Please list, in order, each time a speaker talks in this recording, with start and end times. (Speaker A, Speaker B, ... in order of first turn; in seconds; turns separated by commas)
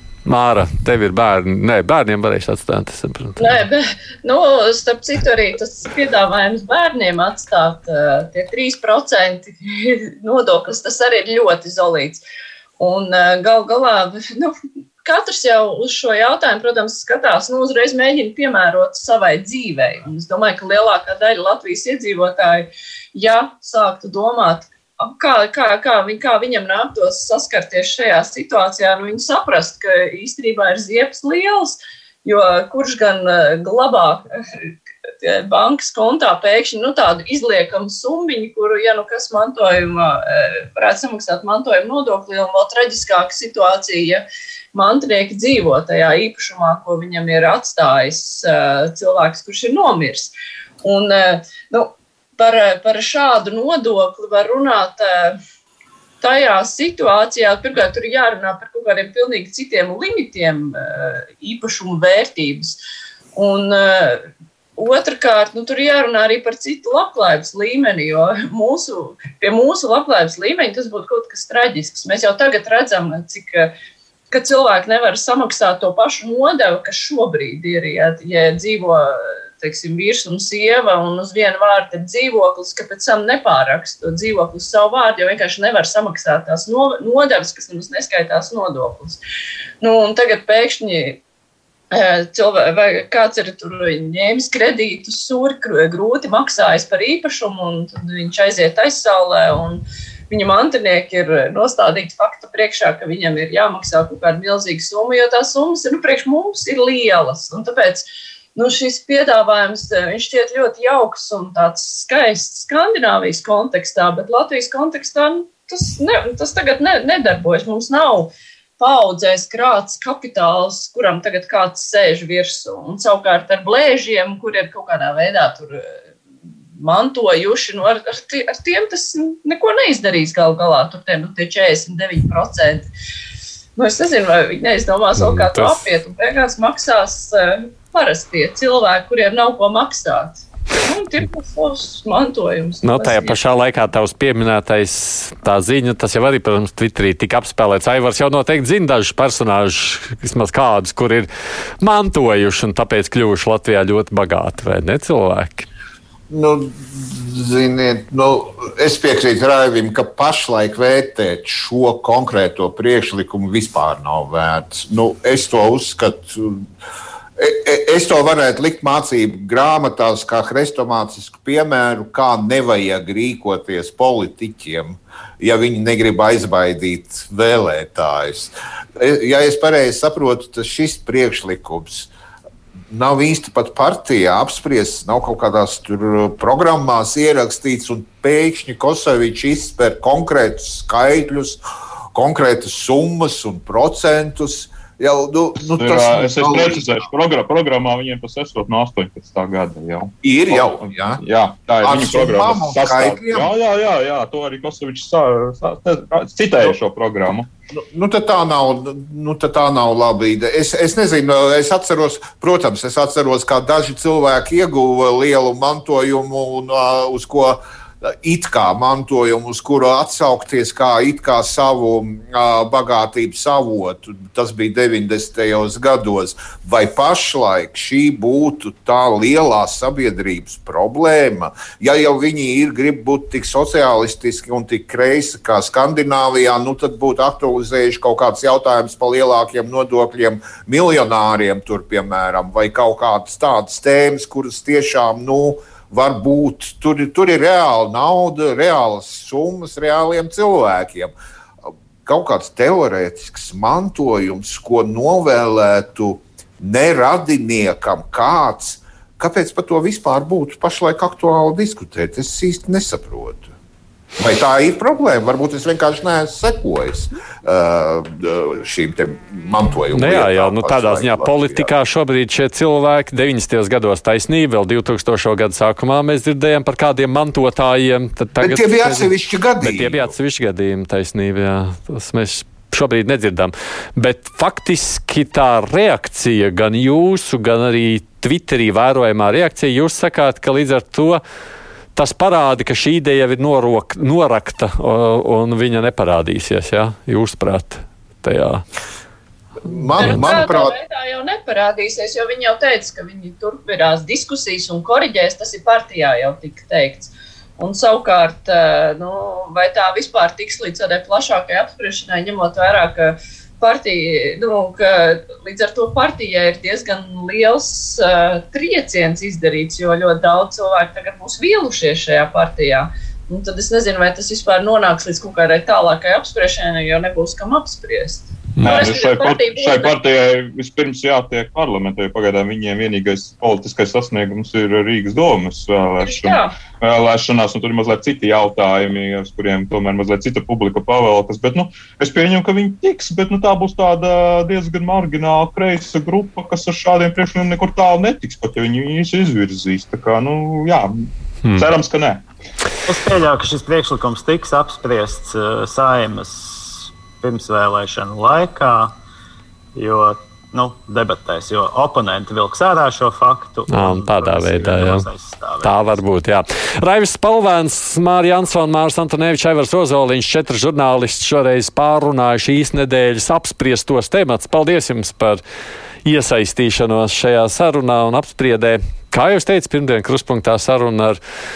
Speaker A: 0.2-3.5, Speaker B: 3.4-12.2, Speaker B: 12.8-50.3, Speaker B: 50.8-55.4, Speaker B: 56.2-62.8, Speaker B: 63.4-64.3, Speaker B: 64.8-73.7, Speaker B: 74.3-89.2, Speaker B: 89.8-91.2, Speaker B: 91.9-126.0, Speaker B: 126.8-132.9, Speaker B: 133.8-143.4, Speaker A: 135.2-135.8, Speaker A: 142.8-151.3, Speaker A: 151.8-155.7, Speaker C: 156.3-166.7, Speaker C: 167.4-182.1, Speaker C: 182.9-191.6, Speaker C: 192.1-196.8, Speaker D: 195.8-207.5, Speaker C: 200.2-201.2, Speaker C: 201.8-203.5, Speaker C: 207.7-251.1, Speaker C: 252.1-263.5, Speaker C: 264.2-271.7, Speaker A: 269.9-291.2, Speaker C: 278.4-280.1, Speaker A: 291.9-298.6, Speaker C: 299.7-300.8, Speaker B: 300.0-329.9, Speaker A: 328.6-328.8, Speaker D: 328.6-352.2, Speaker B: 336.0-336.5, Speaker A: 351.4-351.7, Speaker E: 352.9-358.9, Speaker E: 359.8-366.0, Speaker A: 363.7-365.1, Speaker A: 365.6-375.4, Speaker A: 376.1-381.2